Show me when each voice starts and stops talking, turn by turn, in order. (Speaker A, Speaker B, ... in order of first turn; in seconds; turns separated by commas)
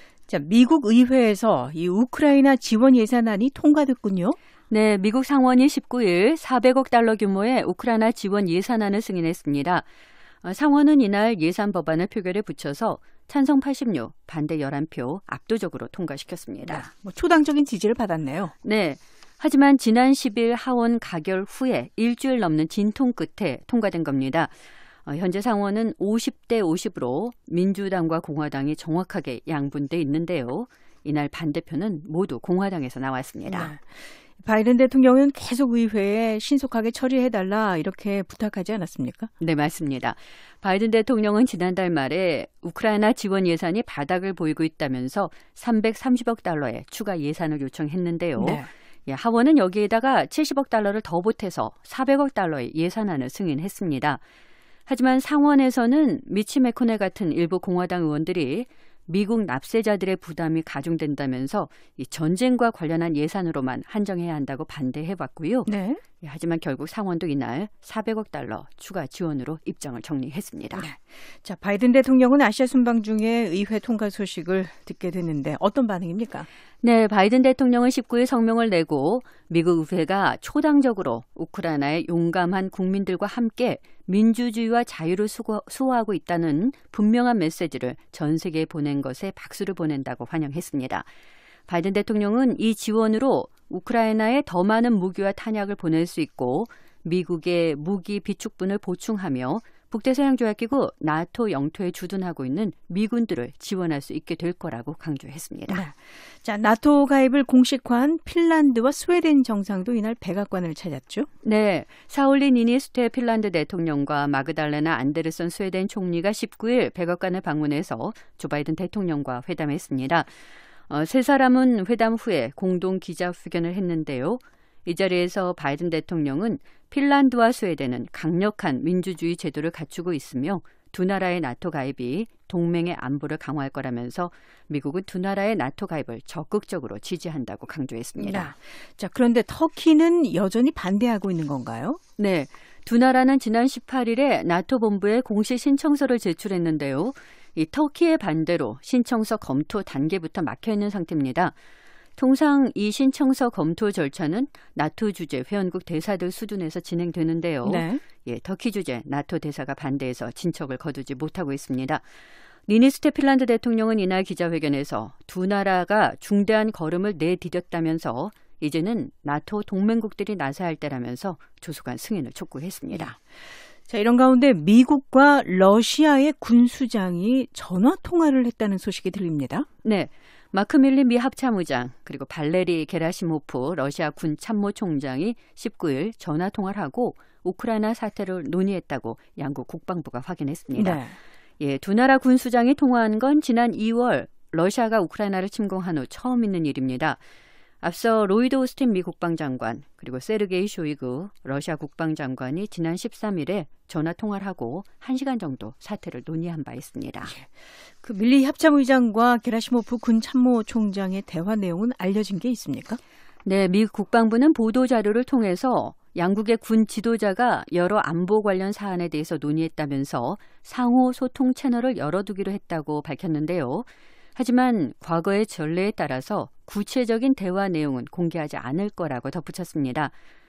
Speaker A: 0.3-4.4, Speaker B: 4.7-9.8, Speaker B: 10.4-16.9, Speaker A: 16.6-18.5, Speaker B: 18.6-24.5, Speaker B: 25.1-33.7, Speaker A: 33.5-33.8, Speaker A: 34.4-39.3, Speaker B: 39.4-54.2, Speaker A: 48.4-48.7, Speaker B: 54.9-65.7, Speaker A: 65.7-66.0, Speaker B: 66.2-70.9, Speaker A: 70.8-76.5, Speaker B: 76.8-91.1, Speaker B: 91.7-105.8, Speaker A: 105.7-111.3, Speaker B: 111.4-120.3, Speaker B: 120.9-138.5, Speaker A: 138.2-142.0, Speaker B: 142.2-151.5, Speaker B: 152.2-162.0, Speaker A: 157.6-158.0, Speaker B: 162.7-173.2, Speaker A: 173.9-179.7, Speaker B: 179.8-191.0, Speaker A: 190.8-191.2, Speaker B: 191.6-197.2, Speaker B: 197.8-207.3, Speaker A: 208.0-213.0, Speaker B: 213.4-230.1